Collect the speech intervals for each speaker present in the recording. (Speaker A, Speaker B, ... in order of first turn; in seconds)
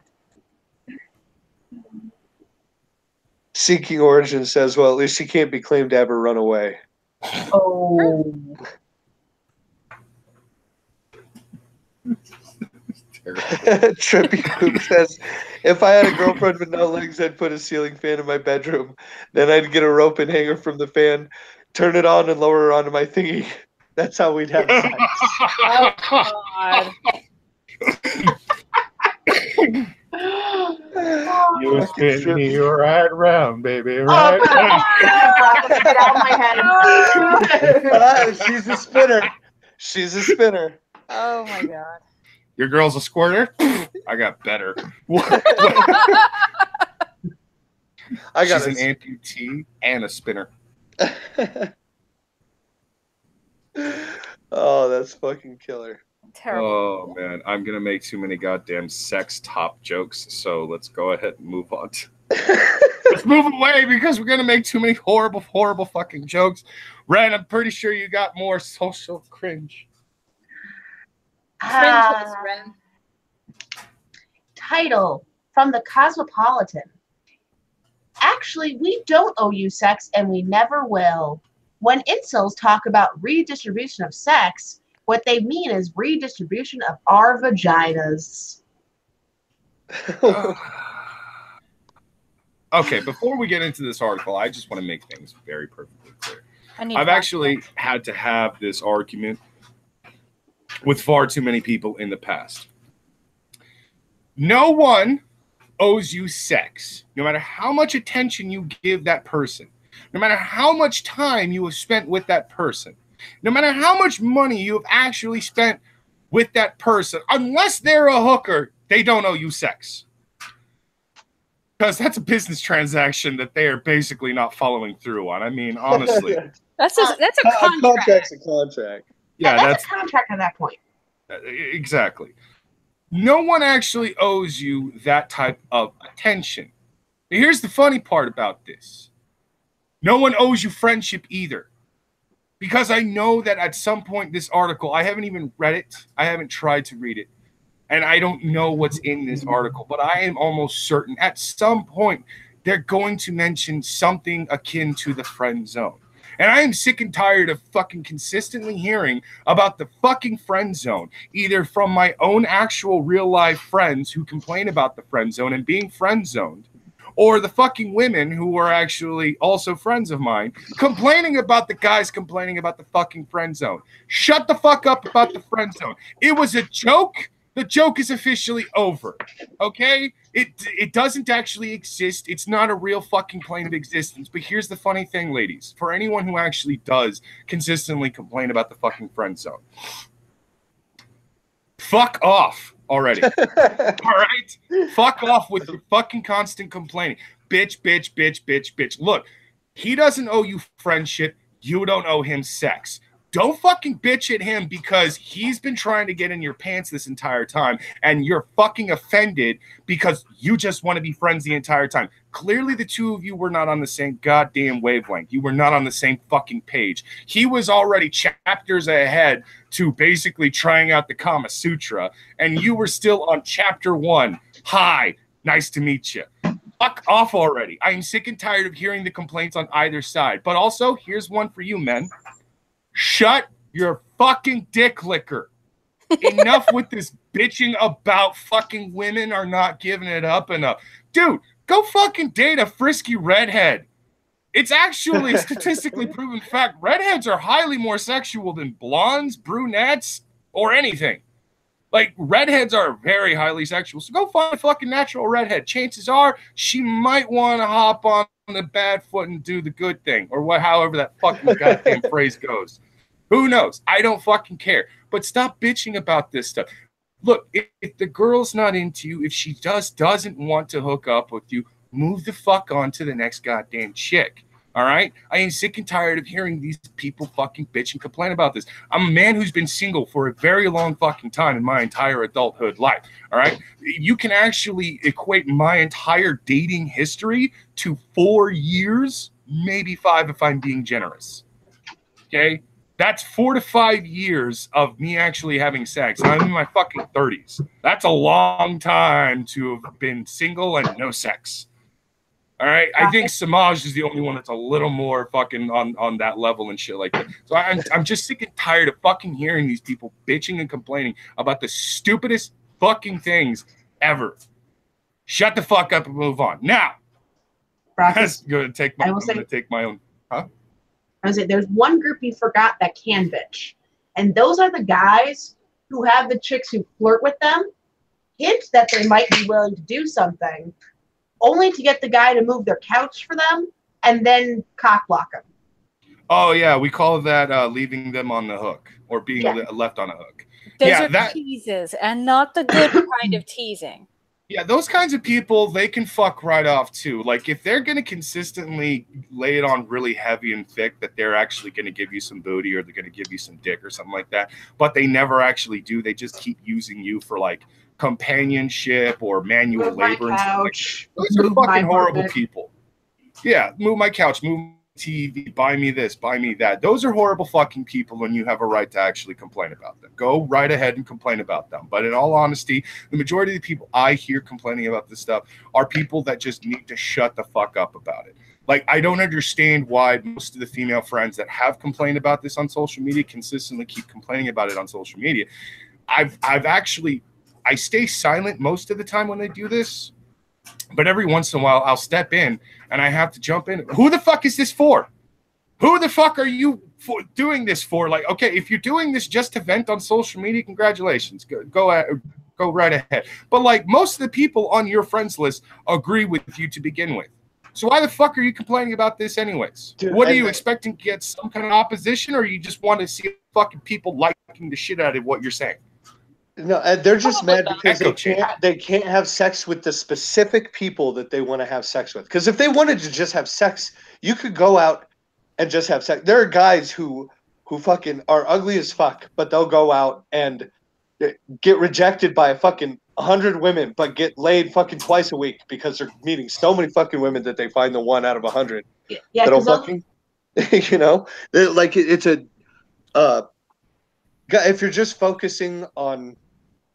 Speaker A: 3.5-6.8, 13.5-25.3, 30.9-32.5, 37.7-40.8, 45.5-45.8, 48.3-48.8, 51.0-51.7, 53.8-56.0, 62.3-63.1, 89.9-90.6, 125.9-126.5, 127.4-129.1, 193.2-194.0, 245.1-245.6, 261.4-262.0, 410.0-410.6, 416.6-425.1, 425.6-430.7, 431.2-438.9, 439.4-440.0, 440.6-442.4, 443.1-443.4, 444.5-446.4
Speaker B: 7.5-8.6, 30.1-31.9, 34.1-38.0, 71.6-72.4, 74.5-76.9, 78.2-88.6, 129.4-130.8, 303.0-303.3, 318.0-318.4, 319.0-319.4, 321.2-327.7, 328.4-330.7, 331.4-335.4, 359.7-362.3, 439.1-439.9
Speaker C: 13.1-13.7, 24.6-26.8, 27.9-28.4, 29.3-29.9, 31.5-39.0, 42.6-46.2, 48.4-50.5, 56.5-62.1, 63.1-69.9, 90.3-91.1, 92.7-99.4, 100.8-102.7, 104.4-105.2, 105.8-120.0, 121.8-126.4, 129.4-129.8, 131.3-132.3, 133.1-136.7, 137.3-139.1, 140.0-141.7, 142.6-147.3, 147.9-189.6, 191.8-193.4, 194.0-232.1, 232.9-235.5, 236.2-243.9, 244.5-251.2, 251.9-262.8, 263.3-266.7, 267.2-291.4, 292.3-301.7, 302.6-314.4, 315.3-316.9, 318.1-320.5, 336.3-341.3, 344.5-362.7, 363.4-385.5, 386.1-390.1, 390.9-395.1, 395.8-415.8, 417.8-418.5
Speaker D: 25.6-26.9, 36.6-37.4, 41.1-42.0, 45.5-46.4, 56.3-56.8, 71.7-72.8, 96.8-97.5, 126.8-128.3, 236.2-236.6, 340.8-344.1, 417.2-417.8